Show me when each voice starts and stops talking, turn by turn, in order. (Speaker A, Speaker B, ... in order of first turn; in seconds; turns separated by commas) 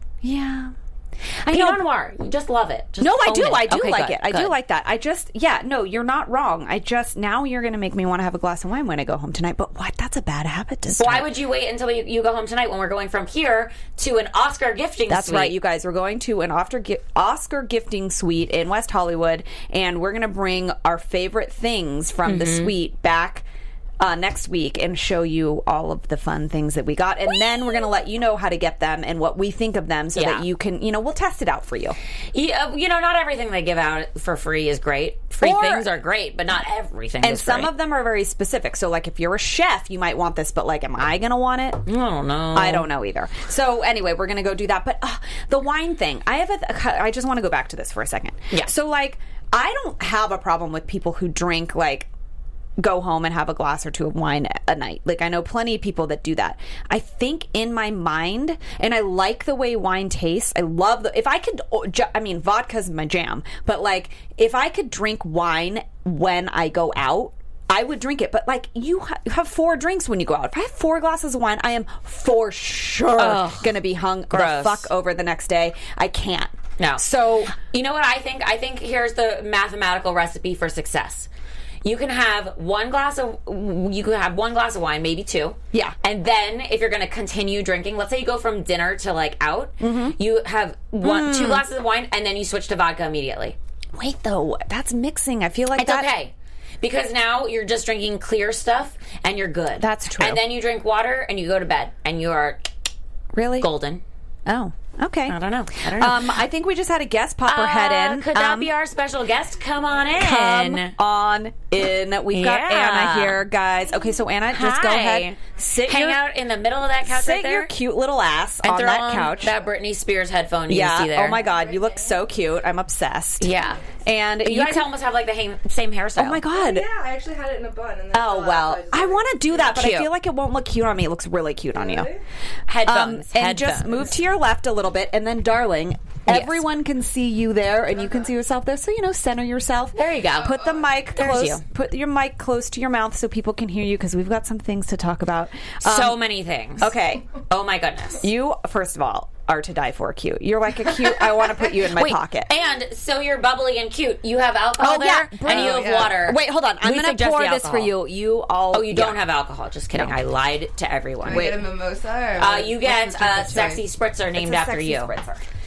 Speaker A: 0.2-0.7, Speaker A: 1.4-1.8, Speaker B: 1.4-4.5, Speaker A: 3.0-11.3, Speaker B: 10.9-15.5, Speaker A: 15.1-23.4, Speaker B: 22.2-22.7, Speaker A: 24.0-32.0, Speaker B: 30.1-30.5, Speaker B: 32.3-37.7, Speaker A: 35.4-35.9, Speaker A: 37.2-41.9, Speaker B: 41.9-42.9, Speaker A: 42.5-52.1, Speaker A: 52.8-77.5, Speaker B: 73.2-73.7, Speaker B: 74.3-74.9, Speaker B: 76.8-81.3, Speaker B: 81.8-93.5, Speaker A: 89.8-90.2, Speaker A: 91.0-91.6, Speaker A: 94.0-96.1, Speaker B: 95.8-102.7, Speaker A: 99.8-100.4, Speaker A: 103.3-103.7, Speaker B: 103.6-104.0, Speaker A: 104.5-105.3, Speaker B: 105.3-106.3, Speaker A: 105.9-108.7, Speaker B: 107.5-110.9, Speaker A: 110.2-116.2, Speaker B: 112.3-113.4, Speaker B: 114.5-117.7, Speaker A: 117.0-119.5, Speaker B: 118.6-121.4, Speaker A: 120.7-124.9, Speaker C: 121.4-122.2, Speaker B: 123.4-123.8, Speaker B: 124.4-126.4, Speaker A: 126.2-126.8, Speaker C: 126.5-129.7, Speaker A: 128.1-132.1, Speaker B: 129.7-130.1, Speaker C: 131.7-132.2, Speaker B: 132.7-134.1, Speaker A: 132.8-146.2, Speaker B: 136.3-136.6, Speaker B: 139.9-140.6, Speaker C: 140.3-141.2, Speaker B: 141.1-141.6, Speaker B: 145.8-148.3, Speaker A: 146.8-147.3, Speaker A: 148.2-152.5, Speaker B: 151.0-157.9, Speaker A: 154.8-159.2, Speaker C: 155.4-156.2, Speaker B: 158.7-161.5, Speaker A: 159.9-160.2, Speaker C: 161.2-163.8, Speaker A: 161.3-161.6, Speaker B: 162.4-165.1, Speaker A: 164.3-165.4